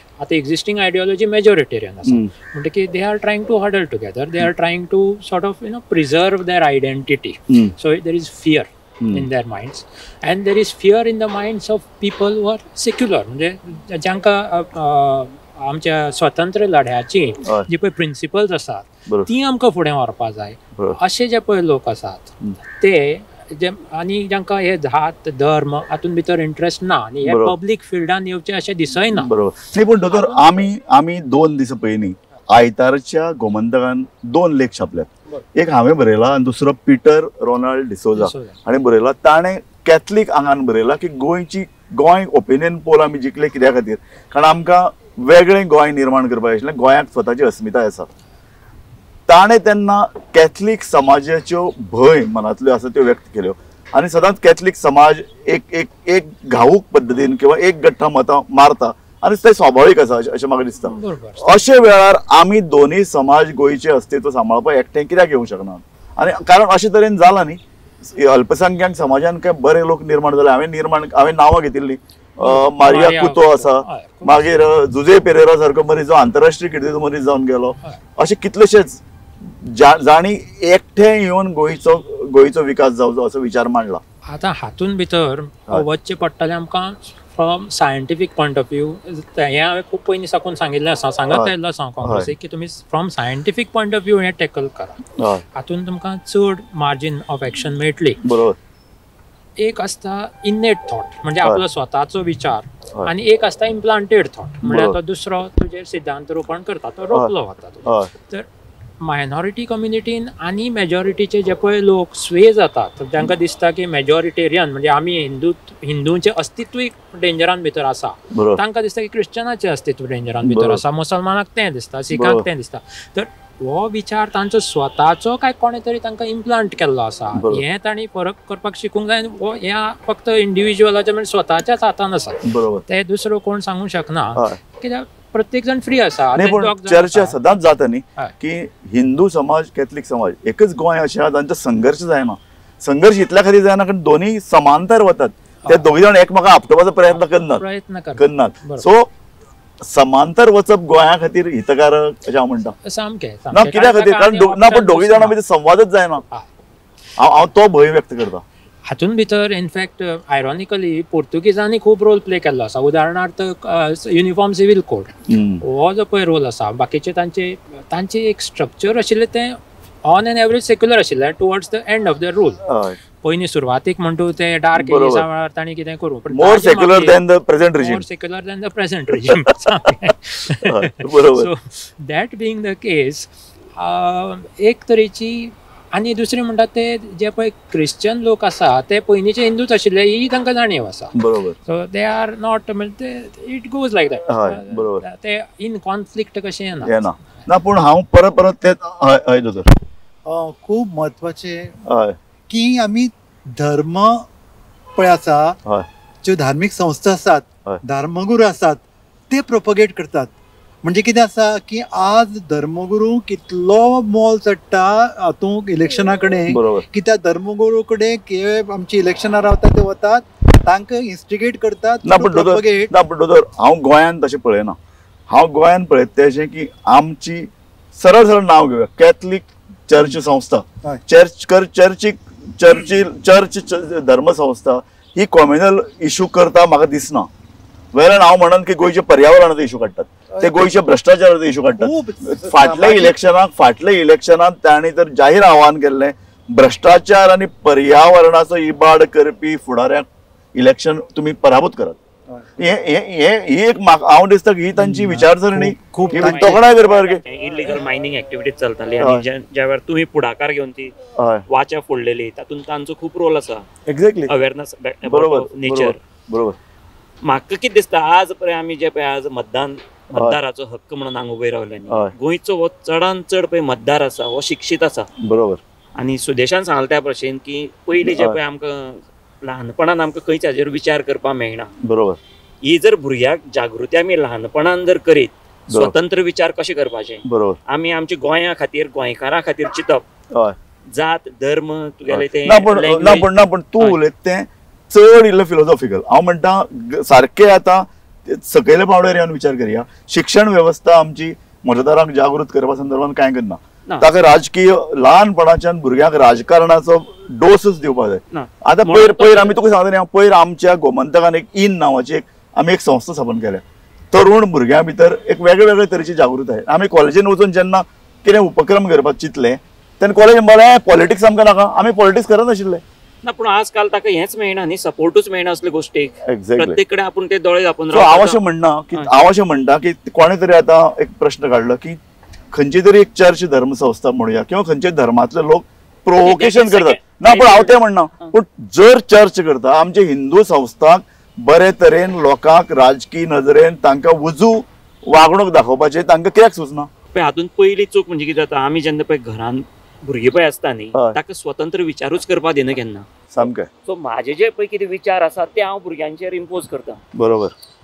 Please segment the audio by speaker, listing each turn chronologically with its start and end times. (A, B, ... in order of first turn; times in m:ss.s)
0:00.2-0:29.3 A
0:02.1-0:02.3 B
0:07.5-0:07.7 B
0:09.0-0:09.3 B
0:17.4-0:17.7 B
0:27.2-0:27.6 B
0:29.1-0:48.1 B
0:30.1-0:30.4 A
0:38.2-0:38.6 A
0:49.3-1:24.0 B
1:00.8-1:01.7 A
1:12.4-1:14.4 A
1:24.3-1:35.0 A
1:32.0-1:32.3 B
1:35.2-1:35.4 B
1:35.6-1:38.2 A
1:38.2-1:38.6 B
1:39.6-1:48.5 A
1:44.6-1:45.0 B
1:47.8-1:48.1 B
1:49.0-2:17.4 A
1:58.3-1:58.6 B
2:00.4-2:00.8 B
2:02.1-2:02.5 B
2:07.4-2:07.6 B
2:12.4-2:12.8 B
2:16.4-2:27.6 B
2:27.1-2:28.9 A
2:28.2-2:29.1 B
2:29.8-2:32.8 B
2:32.9-2:35.4 A
2:33.5-2:36.2 B
2:37.2-2:38.4 B
2:38.9-2:45.1 A
2:45.3-2:45.6 B
2:45.6-2:52.6 A
2:52.6-2:53.0 B
2:53.2-2:57.2 A
2:54.8-2:55.2 B
2:56.3-2:58.0 B
2:57.8-3:17.4 A
3:00.6-3:01.5 B
3:11.2-3:11.6 B
3:14.3-3:15.0 B
3:16.8-3:19.7 B
3:20.3-3:21.8 C
3:21.8-3:22.2 B
3:22.5-3:24.3 C
3:25.0-3:25.6 C
3:26.2-3:42.9 C
3:36.5-3:36.8 B
3:42.0-3:44.8 B
3:45.3-3:57.3 B
3:57.9-4:12.0 B
4:00.3-4:00.6 C
4:01.8-4:03.2 C
4:12.6-4:17.2 B
4:14.8-4:16.6 C
4:16.1-4:21.0 D
4:21.2-4:21.4 B
4:21.5-4:23.7 D
4:23.9-4:24.3 B
4:24.3-4:26.0 D
4:25.1-4:26.6 B
4:27.2-4:35.1 D
4:35.2-4:35.6 B
4:36.0-4:41.7 D
4:38.0-4:38.4 B
4:41.8-4:42.2 B
4:42.6-4:50.0 D
4:47.3-4:47.6 B
4:50.9-4:54.0 D
4:52.1-5:22.8 B
5:08.3-5:09.6 D
5:23.2-5:28.4 D
5:26.3-5:26.8 B
5:27.9-5:32.0 B
5:32.5-5:46.9 B
5:36.2-5:38.3 D
5:47.1-5:53.1 D
5:53.3-5:53.7 B
5:53.9-5:57.0 D
5:57.2-5:57.5 B